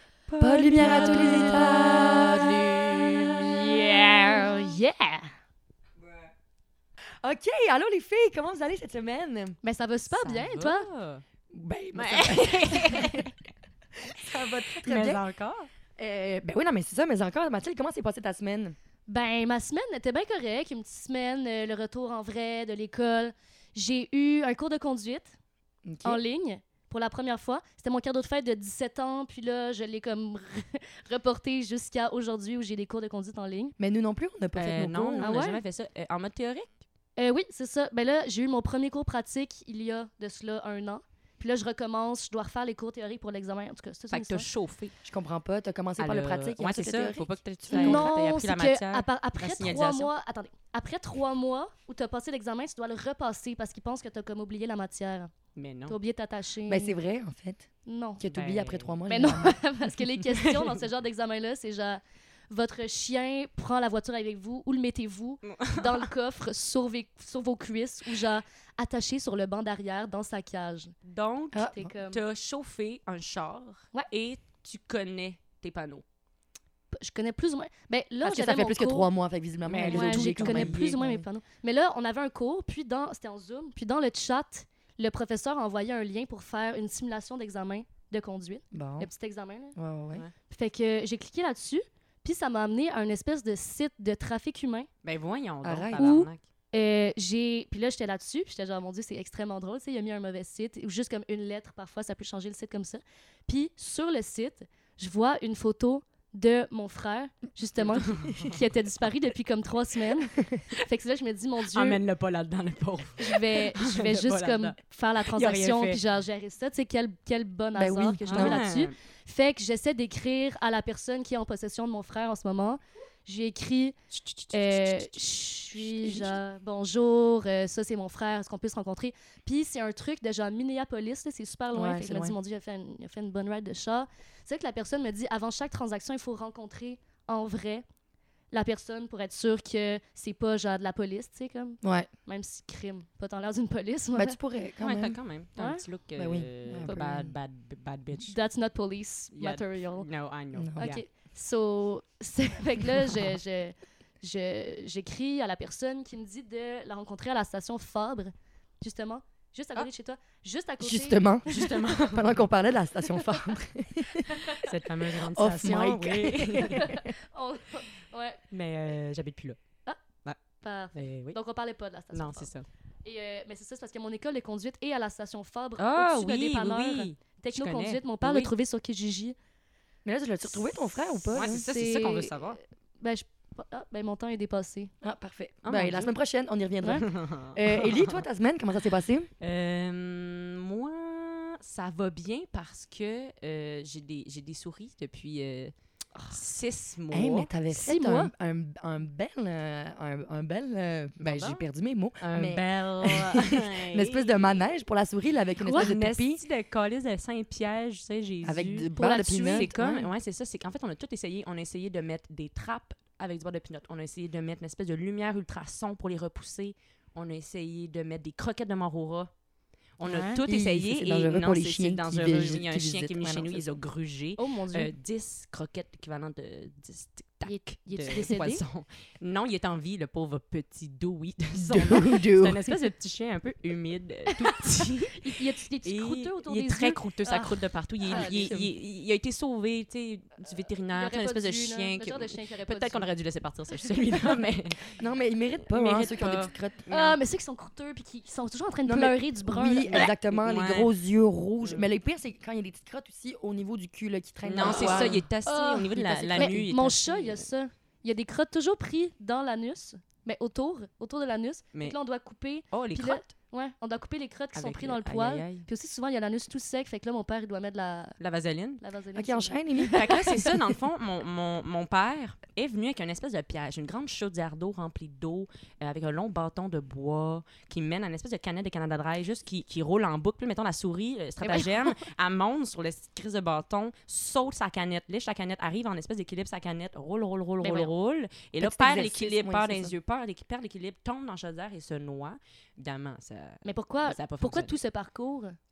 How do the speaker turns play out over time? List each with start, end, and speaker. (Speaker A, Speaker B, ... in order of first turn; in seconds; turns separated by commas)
Speaker A: 0.3-4.5, Speaker B: 0.4-5.3, Speaker C: 0.5-4.4, Speaker A: 7.0-9.6, Speaker B: 9.6-10.9, Speaker C: 10.1-11.2, Speaker A: 11.5-13.3, Speaker C: 11.9-13.3, Speaker A: 14.0-15.2, Speaker C: 14.1-15.7, Speaker A: 16.0-18.8, Speaker B: 19.1-25.3, Speaker A: 25.9-26.2, Speaker B: 26.0-33.7, Speaker A: 33.8-35.3, Speaker C: 34.5-36.8, Speaker B: 35.2-35.6, Speaker B: 37.2-44.5, Speaker C: 44.1-44.9, Speaker A: 45.0-48.1, Speaker C: 46.0-50.1, Speaker B: 47.7-55.3, Speaker C: 55.5-56.0, Speaker B: 55.9-57.0, Speaker A: 56.7-57.7, Speaker B: 57.9-58.2, Speaker A: 58.2-59.6, Speaker C: 58.3-58.9, Speaker B: 59.1-70.9, Speaker C: 65.4-66.1, Speaker C: 71.0-76.0, Speaker A: 71.5-71.9, Speaker B: 71.7-72.2, Speaker B: 76.9-79.1, Speaker A: 78.2-81.2, Speaker C: 79.7-81.0, Speaker B: 79.9-89.7, Speaker A: 88.7-89.1, Speaker A: 89.7-90.2, Speaker B: 90.5-94.9, Speaker C: 95.0-96.4, Speaker A: 95.6-96.1, Speaker B: 96.0-112.0, Speaker A: 107.9-108.5, Speaker C: 107.9-108.6, Speaker C: 111.7-116.0, Speaker B: 113.2-123.9, Speaker A: 117.7-118.6, Speaker C: 118.2-118.9, Speaker C: 124.1-125.2, Speaker B: 124.5-137.8, Speaker C: 125.7-126.3, Speaker A: 131.7-132.3, Speaker B: 138.5-144.4, Speaker A: 141.8-142.1, Speaker A: 144.1-145.2, Speaker C: 144.8-148.4, Speaker B: 145.6-145.8, Speaker A: 146.2-147.3, Speaker B: 146.8-147.1, Speaker B: 148.2-150.1, Speaker C: 149.3-151.0, Speaker A: 150.6-151.0, Speaker B: 150.8-161.9, Speaker A: 160.8-167.1, Speaker C: 161.4-162.4, Speaker B: 164.3-164.7, Speaker C: 164.6-166.9, Speaker B: 166.7-168.4, Speaker C: 168.5-169.6, Speaker B: 170.6-172.5, Speaker C: 170.9-171.4, Speaker C: 172.1-172.7, Speaker B: 173.0-179.3, Speaker C: 175.8-178.5, Speaker A: 180.0-181.7, Speaker C: 181.3-182.6, Speaker B: 181.3-184.9, Speaker A: 185.0-189.3, Speaker C: 185.6-186.1, Speaker C: 186.9-188.2, Speaker C: 189.4-195.7, Speaker C: 196.3-197.5, Speaker A: 197.1-206.4, Speaker B: 197.8-198.3, Speaker C: 201.2-201.6, Speaker C: 202.2-204.7, Speaker C: 205.6-208.9, Speaker A: 208.4-210.1, Speaker B: 209.0-209.8, Speaker C: 209.4-219.3, Speaker C: 220.0-245.0, Speaker B: 220.0-220.4, Speaker A: 220.5-223.7, Speaker B: 224.4-224.9, Speaker B: 227.4-228.6, Speaker A: 231.5-232.6, Speaker B: 234.3-238.6, Speaker A: 238.1-238.7, Speaker B: 240.9-243.1, Speaker A: 245.0-247.0, Speaker C: 245.6-247.1, Speaker B: 246.9-250.1, Speaker A: 248.8-255.3, Speaker C: 249.9-250.9, Speaker C: 254.4-257.4, Speaker B: 254.6-268.2, Speaker A: 256.1-256.7, Speaker C: 262.7-263.2, Speaker C: 264.5-265.6, Speaker C: 268.2-268.8, Speaker B: 268.8-270.5, Speaker A: 269.1-270.5, Speaker C: 269.9-294.8, Speaker B: 281.4-281.9, Speaker A: 287.6-287.9, Speaker A: 288.6-289.9, Speaker B: 293.6-295.6